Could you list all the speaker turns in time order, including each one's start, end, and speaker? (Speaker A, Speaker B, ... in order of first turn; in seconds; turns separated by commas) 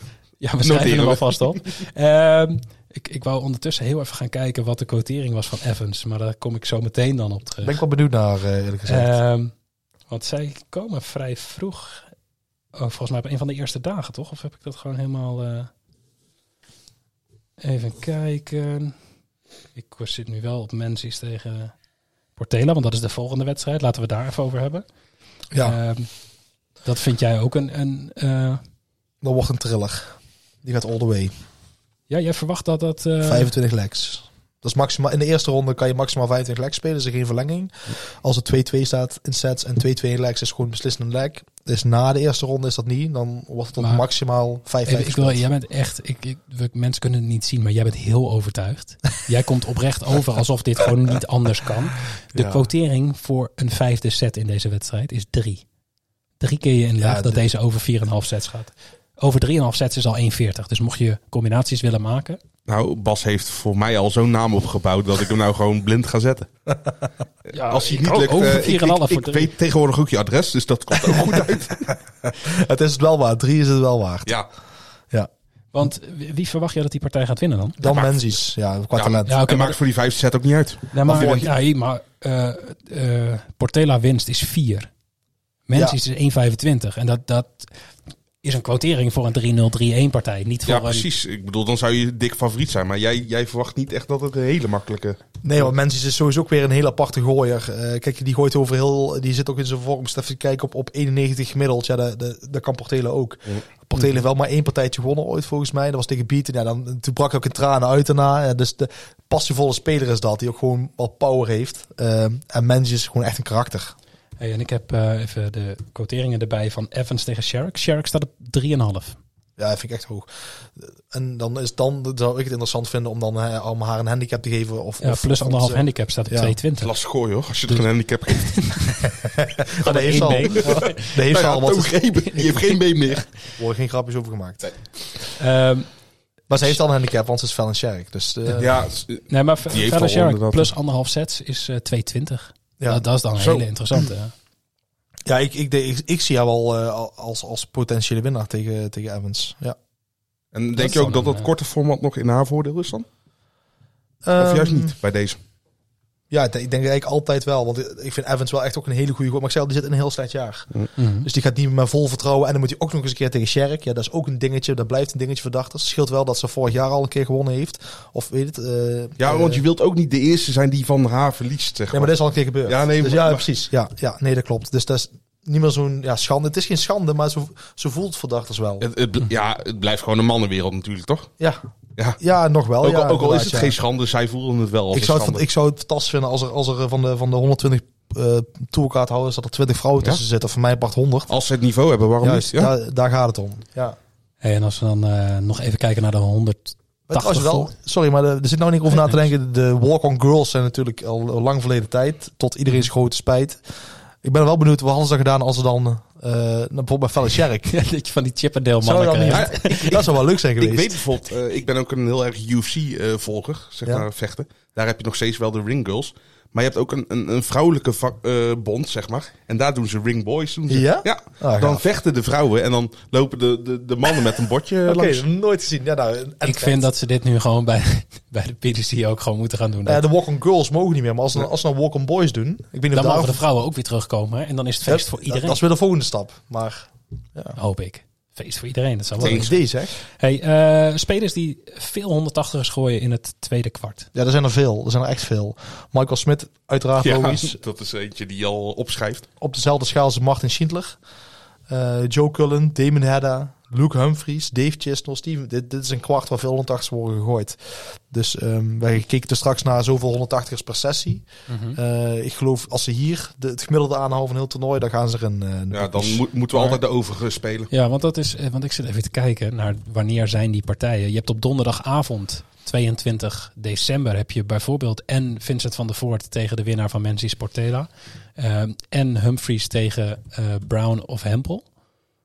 Speaker A: 0.4-7.8, Speaker B: 0.6-1.7, Speaker C: 7.6-9.1, Speaker A: 8.8-9.5, Speaker A: 10.1-12.1, Speaker A: 12.7-15.7, Speaker A: 17.6-18.9, Speaker A: 19.7-21.7, Speaker A: 22.4-24.8, Speaker C: 25.5-25.8, Speaker A: 25.6-26.1, Speaker A: 26.8-28.6, Speaker C: 29.2-31.3, Speaker A: 32.1-33.5, Speaker C: 33.2-45.4, Speaker A: 43.8-44.0, Speaker A: 44.8-55.6, Speaker C: 52.3-52.6, Speaker A: 56.4-62.4, Speaker C: 57.0-57.4, Speaker B: 62.7-66.5, Speaker A: 67.5-69.5, Speaker B: 67.6-71.9, Speaker C: 70.9-74.4, Speaker A: 75.7-77.8, Speaker C: 77.8-79.4, Speaker B: 77.9-78.1, Speaker B: 78.9-81.4, Speaker A: 79.2-79.8, Speaker A: 80.9-84.9, Speaker C: 81.1-81.5, Speaker A: 85.7-87.7, Speaker A: 88.4-91.1, Speaker B: 90.7-95.2, Speaker C: 95.4-113.9, Speaker A: 114.4-119.2, Speaker C: 119.6-126.5, Speaker A: 125.0-126.9, Speaker B: 126.8-128.6, Speaker A: 127.7-129.1, Speaker C: 129.3-132.4, Speaker A: 129.8-131.2, Speaker B: 130.6-133.3, Speaker C: 133.6-134.7, Speaker A: 135.4-135.9, Speaker C: 136.5-138.8, Speaker B: 138.5-140.7, Speaker A: 139.3-144.3, Speaker C: 145.2-149.8, Speaker B: 150.5-153.1, Speaker A: 150.8-151.5, Speaker C: 154.2-154.9, Speaker B: 154.4-155.4, Speaker C: 156.3-160.7, Speaker A: 161.0-161.3, Speaker C: 161.2-169.6, Speaker B: 169.2-172.1, Speaker C: 171.9-178.8, Speaker B: 172.6-173.4, Speaker B: 178.8-181.3, Speaker C: 182.2-183.8, Speaker B: 182.8-185.4, Speaker C: 184.9-191.3, Speaker B: 191.3-192.7, Speaker C: 192.2-194.0, Speaker A: 194.4-197.7, Speaker C: 197.1-203.6, Speaker C: 204.2-207.7, Speaker A: 207.7-209.9, Speaker C: 208.8-211.0, Speaker B: 209.3-225.2, Speaker C: 220.7-221.8, Speaker C: 224.8-226.9, Speaker A: 226.4-230.0, Speaker C: 229.8-233.4, Speaker A: 232.9-235.6, Speaker C: 234.8-237.6, Speaker A: 237.5-244.1, Speaker C: 239.2-240.0, Speaker B: 239.2-239.5, Speaker C: 244.1-247.6, Speaker B: 247.0-249.2, Speaker C: 249.4-251.0, Speaker C: 251.7-266.8, Speaker A: 261.5-261.8, Speaker B: 265.7-267.7, Speaker A: 267.7-281.6